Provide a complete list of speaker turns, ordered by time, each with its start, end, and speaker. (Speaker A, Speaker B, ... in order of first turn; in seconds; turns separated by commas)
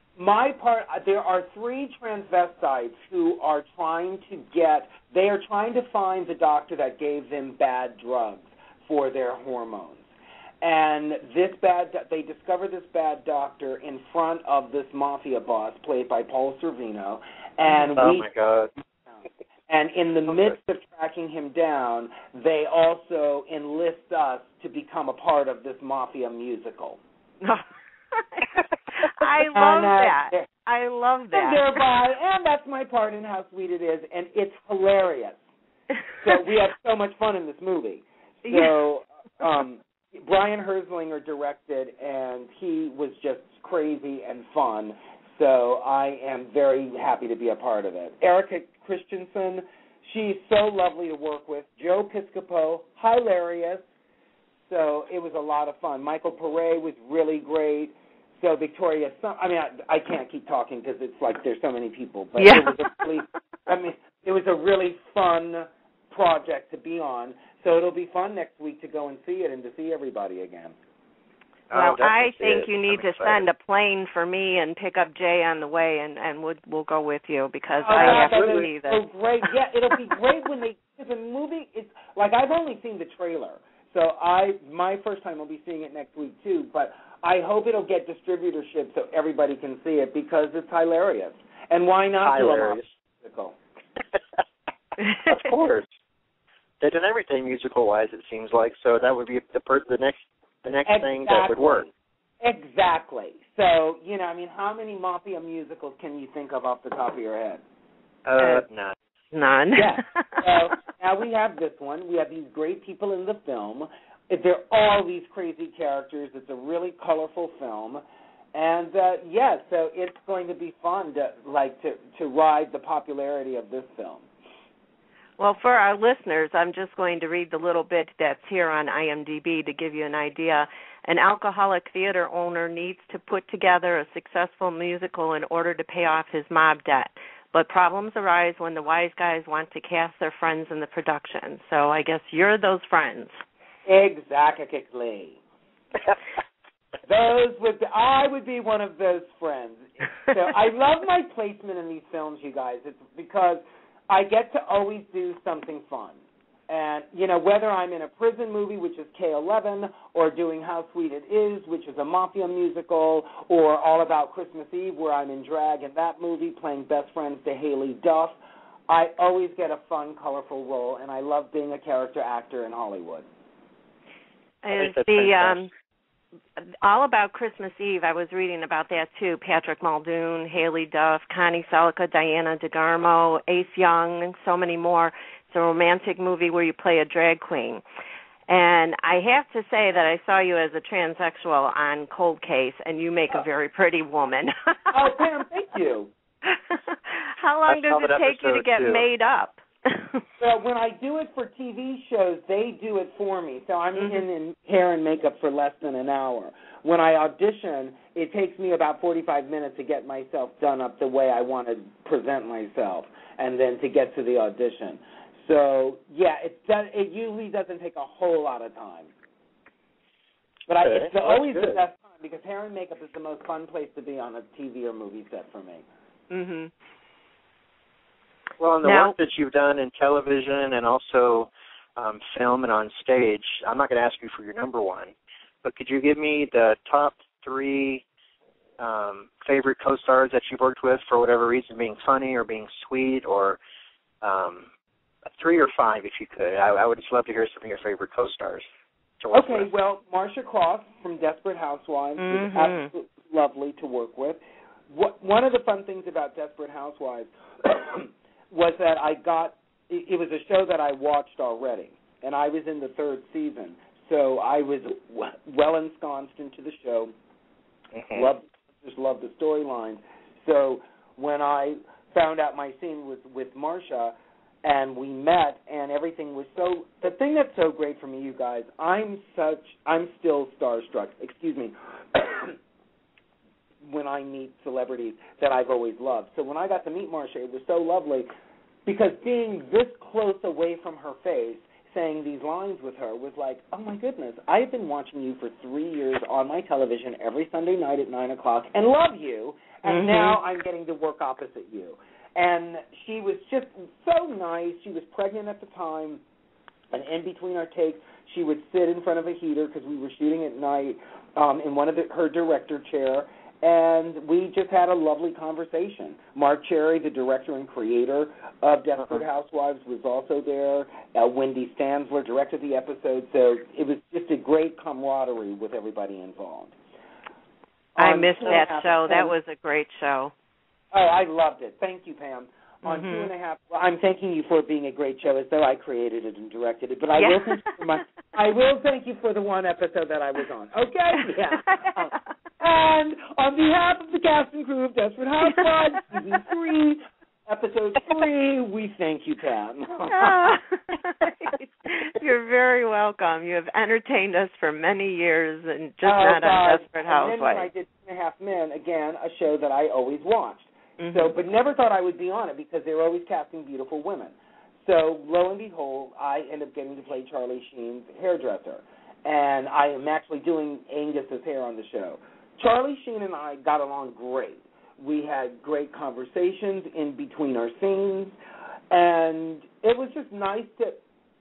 Speaker A: 0.2-10.1, Speaker A: 10.6-18.3, Speaker B: 18.0-18.7, Speaker A: 19.1-27.0, Speaker C: 27.4-31.7, Speaker A: 29.5-30.5, Speaker A: 31.3-35.4, Speaker A: 36.2-53.8, Speaker C: 38.5-38.7, Speaker A: 54.7-70.8, Speaker C: 62.4-63.0, Speaker B: 71.7-73.5, Speaker C: 71.7-79.0, Speaker A: 77.8-93.5, Speaker B: 78.0-78.7, Speaker B: 92.2-92.9, Speaker B: 95.3-95.9, Speaker B: 96.8-101.9, Speaker A: 100.9-101.9, Speaker A: 102.4-107.6, Speaker B: 108.3-109.0, Speaker C: 108.4-108.6, Speaker C: 109.3-110.6, Speaker A: 109.8-118.0, Speaker A: 118.5-124.3, Speaker C: 125.4-143.3, Speaker A: 143.8-145.4, Speaker A: 147.1-156.2, Speaker A: 156.7-168.4, Speaker A: 168.9-173.3, Speaker C: 174.6-175.7, Speaker B: 174.7-175.7, Speaker C: 176.8-187.8, Speaker C: 188.5-195.0, Speaker A: 194.9-196.1, Speaker C: 196.5-200.2, Speaker B: 197.7-199.1, Speaker A: 200.4-219.1, Speaker C: 204.0-204.2, Speaker A: 220.7-225.8, Speaker B: 220.8-221.8, Speaker C: 226.3-226.7, Speaker B: 228.6-235.1, Speaker C: 228.8-229.2, Speaker B: 235.6-238.0, Speaker B: 238.8-243.6, Speaker B: 244.2-244.7, Speaker B: 245.3-248.7, Speaker B: 249.2-249.7, Speaker A: 249.3-267.1, Speaker C: 252.2-252.9, Speaker B: 267.9-268.3, Speaker A: 268.1-282.6, Speaker A: 283.8-288.3, Speaker A: 288.9-306.2, Speaker C: 299.8-300.4, Speaker A: 306.9-326.8, Speaker A: 328.0-329.4, Speaker C: 328.0-330.3, Speaker A: 330.9-350.6, Speaker C: 332.9-333.3, Speaker C: 337.2-337.8, Speaker C: 350.1-357.7, Speaker A: 356.0-378.4, Speaker C: 361.0-361.4, Speaker A: 378.9-381.0